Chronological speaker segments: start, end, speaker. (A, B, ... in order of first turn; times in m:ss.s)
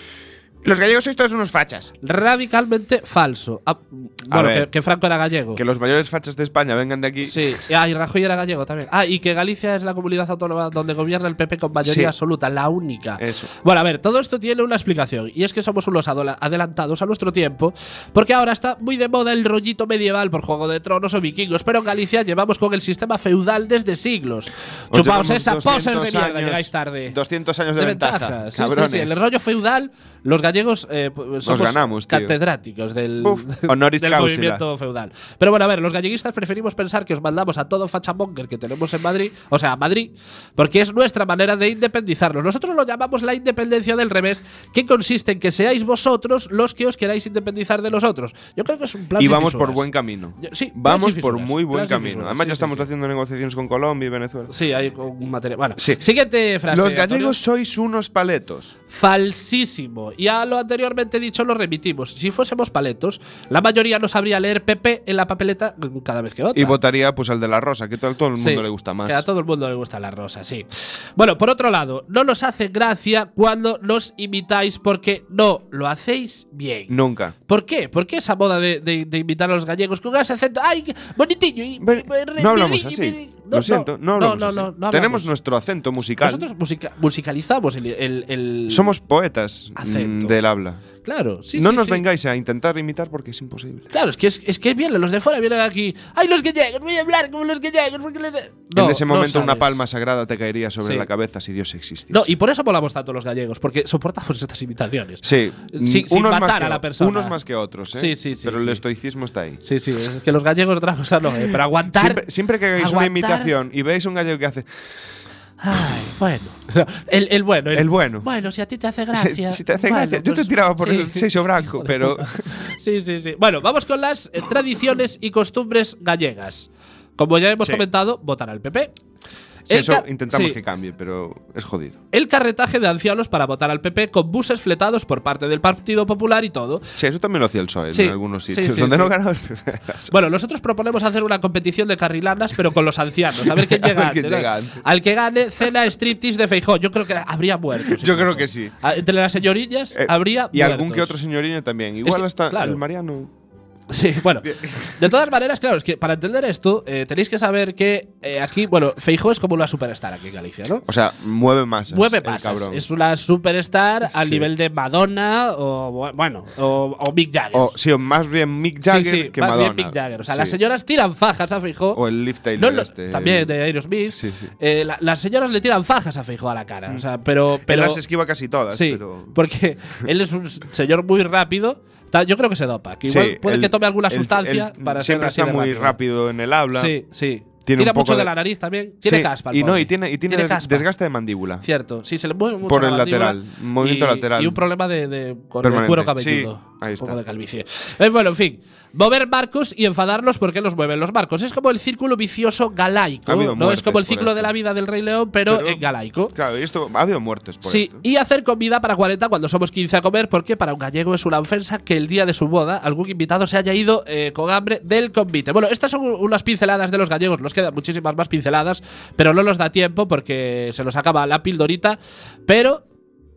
0:00.6-0:01.9 A
0:02.0-0:05.6 B
0:04.3-0:04.7 A
0:05.6-0:07.6 A
0:07.2-0:27.2 B
0:11.8-0:12.1 A
0:13.2-0:13.5 A
0:24.9-0:29.2 A
0:27.8-0:52.9 B
0:31.4-0:32.4 A
0:33.2-0:34.6 A
0:49.2-0:54.5 A
0:54.5-0:57.4 B
0:55.8-0:56.0 A
0:56.7-0:58.8 A
0:58.9-1:06.8 B
1:06.5-1:09.2 A
1:08.4-1:25.3 B
1:16.9-1:17.4 A
1:21.8-1:26.5 A
1:26.2-1:28.9 B
1:28.7-1:30.8 A
1:29.8-1:30.4 B
1:31.0-1:32.0 B
1:31.6-1:33.9 A
1:33.9-1:39.8 B
1:38.7-1:42.3 A
1:40.8-1:41.1 B
1:42.1-1:47.4 B
1:45.2-1:49.6 A
1:48.0-1:48.8 B
1:49.6-1:53.6 B
1:51.9-1:54.7 A
1:55.6-2:08.9 B
1:57.7-1:58.3 A
1:59.1-2:02.5 A
2:07.6-2:07.8 A
2:09.7-2:12.0 A
2:09.7-2:10.6 B
2:12.1-2:16.9 B
2:17.0-2:20.2 A
2:17.9-2:19.2 B
2:20.1-2:31.2 B
2:23.4-2:24.8 A
2:27.8-2:28.8 A
2:29.9-2:33.3 A
2:32.0-2:32.8 B
2:33.9-2:40.9 B
2:34.4-2:35.1 A
2:40.9-2:42.9 A
2:41.9-2:47.7 B
2:44.1-2:44.5 A
2:47.5-2:50.6 A
2:48.8-2:52.0 B
2:51.9-2:53.6 A
2:52.6-2:58.0 B
2:54.1-2:54.5 A
2:57.6-2:59.4 A
2:58.7-3:06.0 B
3:03.1-3:07.0 A
3:06.7-3:10.9 B
3:07.6-3:08.3 A
3:09.0-3:11.6 A
3:11.6-3:26.3 B
3:12.6-3:14.6 A
3:15.6-3:17.2 A
3:23.3-3:24.5 A
3:25.5-3:28.0 A
3:27.6-3:42.8 B